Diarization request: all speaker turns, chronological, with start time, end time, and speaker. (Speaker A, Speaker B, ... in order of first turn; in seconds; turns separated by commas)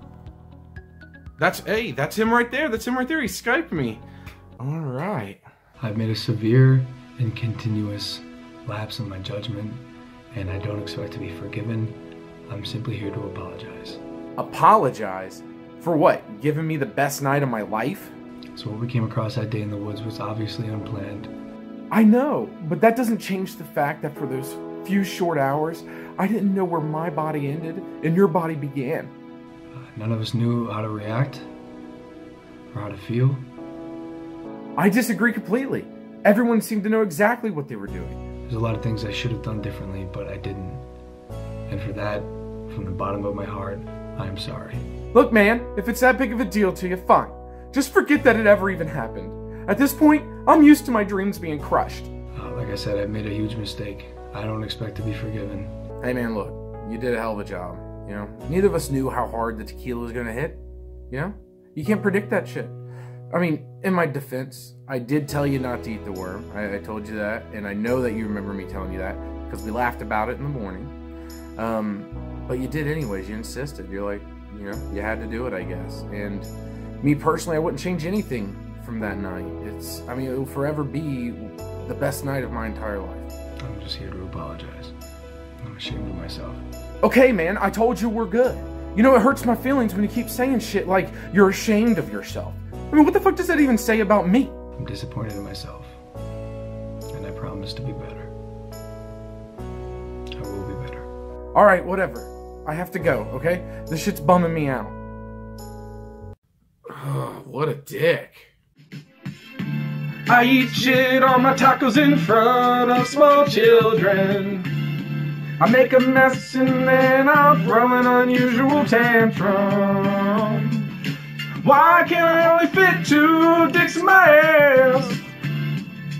Speaker A: 1.4-4.0, Speaker A: 4.6-5.4, Speaker B: 5.8-12.0, Speaker B: 12.5-14.0, Speaker A: 14.4-18.1, Speaker B: 18.6-21.3, Speaker A: 21.9-29.1, Speaker B: 29.7-31.5, Speaker B: 32.7-33.4, Speaker A: 34.8-38.2, Speaker B: 38.5-40.8, Speaker B: 41.7-44.9, Speaker A: 45.1-52.1, Speaker B: 52.4-55.7, Speaker A: 56.0-60.6, Speaker A: 61.1-62.8, Speaker A: 63.3-70.9, Speaker A: 71.6-76.5, Speaker A: 77.0-83.3, Speaker B: 83.6-85.0, Speaker B: 85.6-86.6, Speaker A: 87.0-94.5, Speaker B: 94.8-96.0, Speaker B: 97.1-98.3, Speaker B: 100.4-101.1, Speaker A: 101.5-105.0, Speaker A: 106.9-108.5, Speaker A: 110.3-114.7, Speaker A: 115.6-120.9, Speaker A: 121.6-125.2